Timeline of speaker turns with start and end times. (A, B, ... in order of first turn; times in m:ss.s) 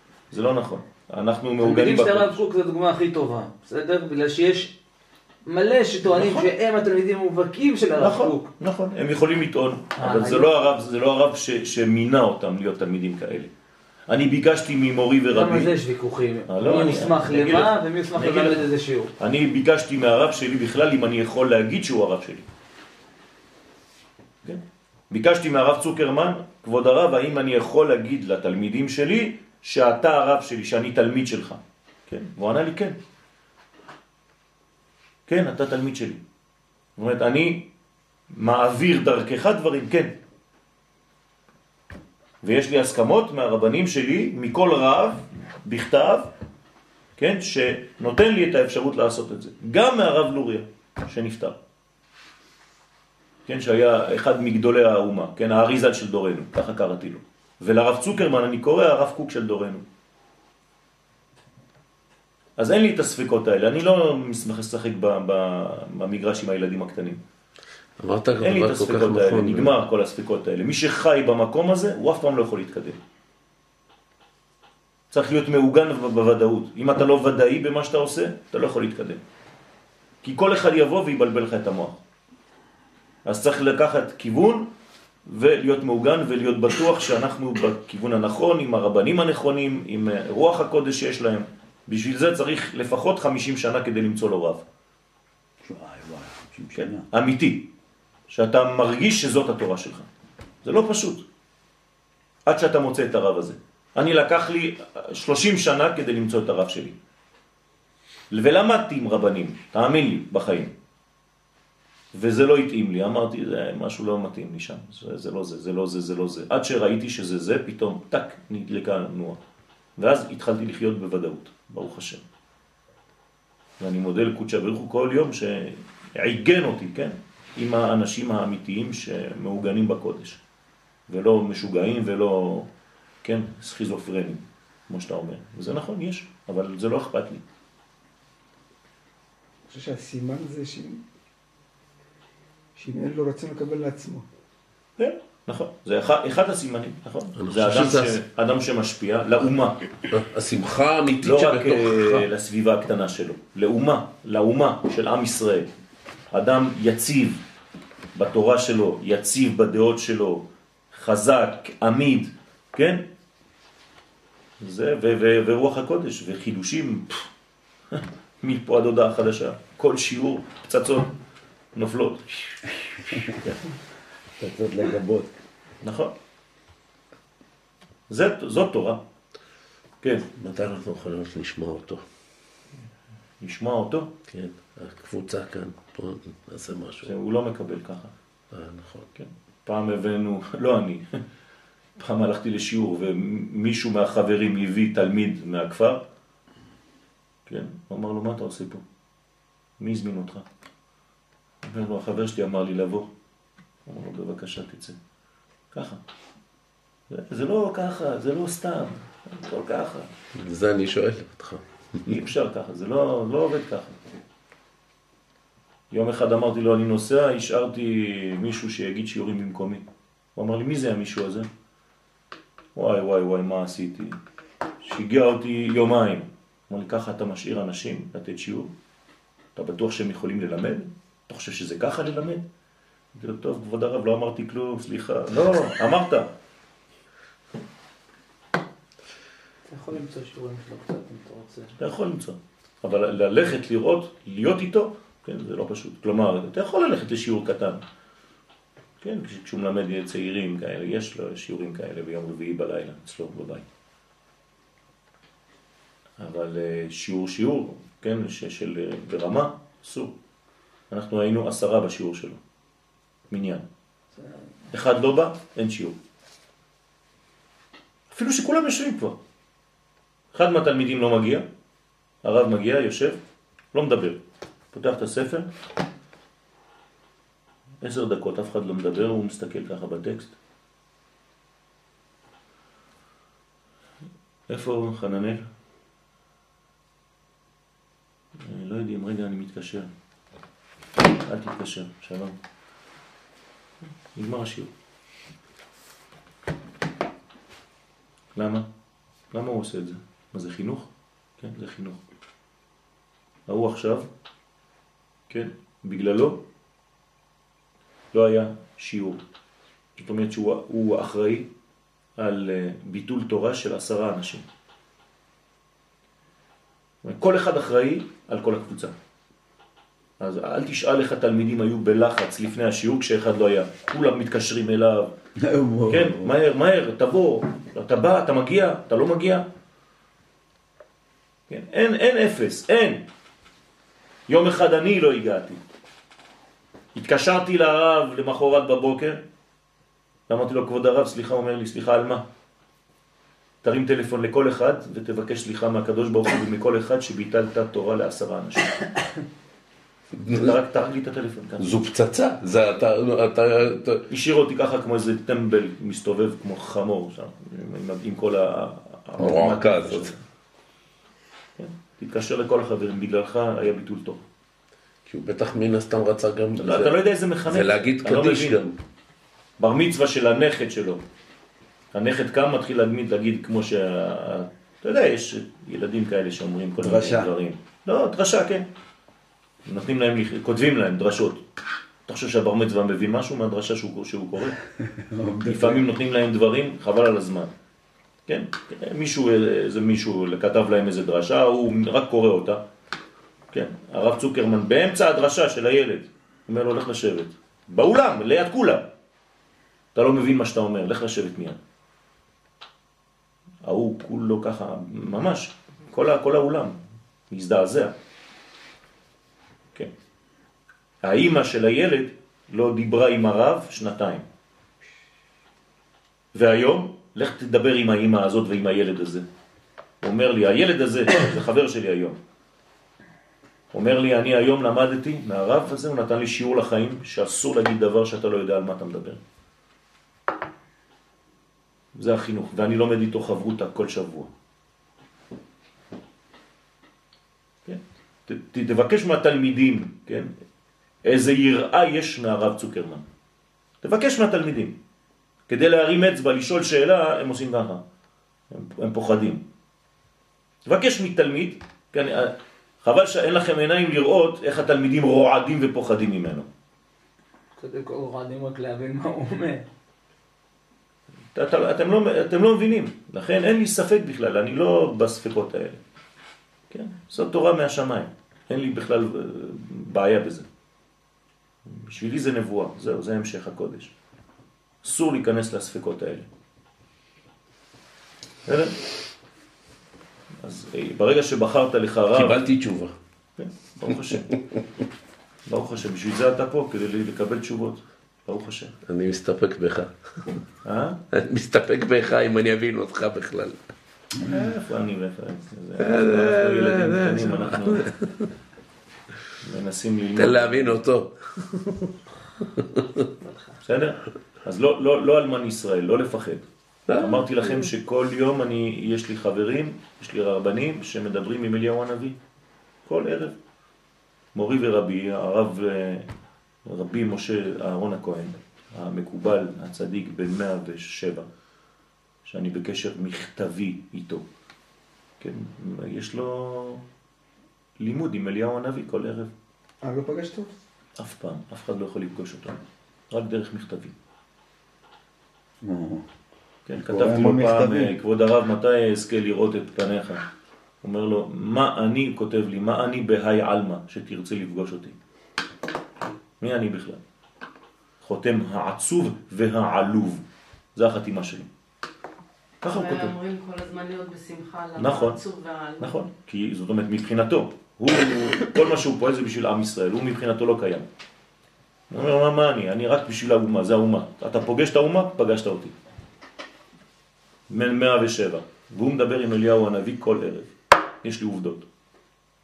0:00.3-0:02.4 A
0:01.6-0:04.7 B
0:05.4-0:08.5 B
0:06.1-0:06.5 A
0:08.0-0:13.5 A
0:10.0-0:10.5 B
0:14.1-0:15.7 A
0:15.3-0:19.1 B
0:16.5-0:18.7 A
0:19.2-0:22.4 A
0:24.4-0:33.0 A
0:35.3-0:36.2 A
0:37.0-0:37.7 A
0:38.3-0:40.1 A
0:42.4-0:46.3 A
0:47.2-0:51.6 A
0:53.4-0:59.8 A
1:02.6-1:07.2 A
1:08.0-1:09.8 C
1:08.4-1:13.0 A
1:15.1-1:19.2 A
1:20.2-1:22.0 A
1:23.2-1:24.7 A
1:25.3-1:34.6 A
1:35.6-1:37.0 D
1:36.7-1:37.7 A
1:38.3-1:40.1 A
1:40.6-1:41.2 A
1:42.4-1:47.0 A
1:48.3-1:50.7 A
1:52.1-1:59.4 A
2:00.0-2:02.2 A
2:03.8-2:10.4 A
2:11.1-2:12.7 A
2:13.2-2:17.4 A
2:19.7-2:21.0 E
2:22.8-2:24.2 E
2:25.0-2:29.8 A
2:27.4-2:28.2 C
2:30.1-2:32.3 C
2:31.2-2:35.7 A
2:36.3-2:37.4 A
2:38.1-2:43.0 A
2:44.6-2:47.3 A
2:47.9-2:51.1 A
2:51.7-2:52.6 A
2:54.4-2:55.3 D
2:55.8-2:56.1 A
2:58.1-2:59.0 A
3:00.0-3:00.3 A
3:00.4-3:02.0 C
3:03.4-3:04.1 A
3:04.3-3:07.1 C
3:07.0-3:08.1 A
3:08.5-3:09.1 C
3:09.2-3:11.0 A
3:12.0-3:16.0 A
3:17.5-3:18.8 A
3:19.8-3:20.4 A
3:21.6-3:23.1 A
3:23.8-3:25.0 A
3:25.7-3:26.0 A
3:27.1-3:30.1 A
3:30.4-3:32.2 C
3:32.0-3:34.0 A
3:35.9-3:39.8 A
3:40.4-3:41.5 A
3:42.7-3:44.2 A
3:44.8-3:48.7 A
3:49.5-3:52.4 A
3:53.1-3:56.3 A
3:59.7-4:01.8 B
4:01.8-4:07.8 A
4:09.0-4:13.6 A
4:16.2-4:20.1 A
4:20.9-4:22.4 A
4:23.3-4:23.6 A
4:24.2-4:24.4 B
4:24.7-4:26.0 A
4:28.1-4:29.2 A
4:30.3-4:31.4 A
4:32.2-4:33.2 A
4:33.7-4:34.2 A
4:34.7-4:35.5 A
4:37.8-4:40.3 A
4:44.5-4:45.5 A
4:48.4-4:49.9 A
4:51.1-4:52.3 A
4:54.1-4:54.7 A
4:58.3-4:58.7 A
4:59.3-5:02.0 A
5:03.5-5:04.1 A
5:05.3-5:06.4 A
5:08.1-5:09.2 A
5:10.0-5:11.5 A
5:12.2-5:14.4 A
5:17.0-5:18.9 A
5:20.2-5:25.1 A
5:25.4-5:26.3 D
5:25.9-5:29.4 A
5:31.5-5:33.0 A
5:34.3-5:35.6 A
5:36.9-5:39.2 A
5:40.3-5:42.2 A
5:43.6-5:48.8 A
5:50.2-5:50.5 C
5:50.2-5:51.7 A
5:51.6-5:54.0 C
5:54.1-6:00.2 A
5:59.2-6:00.1 C
6:01.6-6:04.2 A
6:05.0-6:08.7 C
6:06.6-6:08.6 A
6:09.6-6:11.0 A
6:11.9-6:18.6 A
6:16.8-6:17.3 D
6:19.6-6:21.4 A
6:22.1-6:24.6 A
6:24.9-6:25.8 D
6:25.4-6:27.5 A
6:28.3-6:32.6 A
6:33.5-6:38.9 A
6:39.9-6:41.6 A
6:43.6-6:46.8 A
6:47.3-6:47.9 A
6:51.0-6:54.2 A
6:56.3-6:59.2 A
7:00.0-7:02.2 A
7:03.7-7:09.2 A
7:11.9-7:14.3 A
7:17.6-7:20.3 A
7:21.0-7:23.0 A
7:23.8-7:24.8 A
7:25.5-7:27.8 A
7:28.5-7:29.4 A
7:30.6-7:36.5 A
7:37.6-7:39.7 B
7:41.3-7:45.8 A
7:46.7-7:50.4 A
7:51.6-7:53.9 A
7:54.8-7:56.3 A
7:58.5-7:58.8 A
8:00.4-8:02.4 A
8:02.1-8:02.9 C
8:03.4-8:04.3 A
8:05.5-8:08.7 A
8:08.9-8:10.4 C
8:10.6-8:11.0 A
8:11.1-8:13.6 C
8:14.2-8:17.9 A
8:15.8-8:18.3 C
8:19.4-8:20.8 A
8:20.2-8:23.1 C
8:23.2-8:23.5 B
8:23.6-8:32.2 A
8:26.9-8:27.7 C
8:32.8-8:33.3 A
8:34.3-8:36.1 A
8:36.6-8:41.3 A
8:42.2-8:44.2 A
8:45.2-8:46.8 A
8:47.8-8:49.3 A
8:49.8-8:50.5 E
8:51.0-8:53.9 A
8:55.6-8:56.0 D
8:56.6-9:00.2 A
8:56.8-8:57.9 D
9:00.8-9:05.0 A
9:06.4-9:07.0 A
9:08.0-9:10.2 A
9:10.7-9:11.5 A
9:12.6-9:13.1 A
9:12.7-9:16.0 F
9:14.8-9:15.2 A
9:15.8-9:20.9 A
9:21.9-9:25.7 A
9:27.5-9:30.5 A
9:31.0-9:31.7 A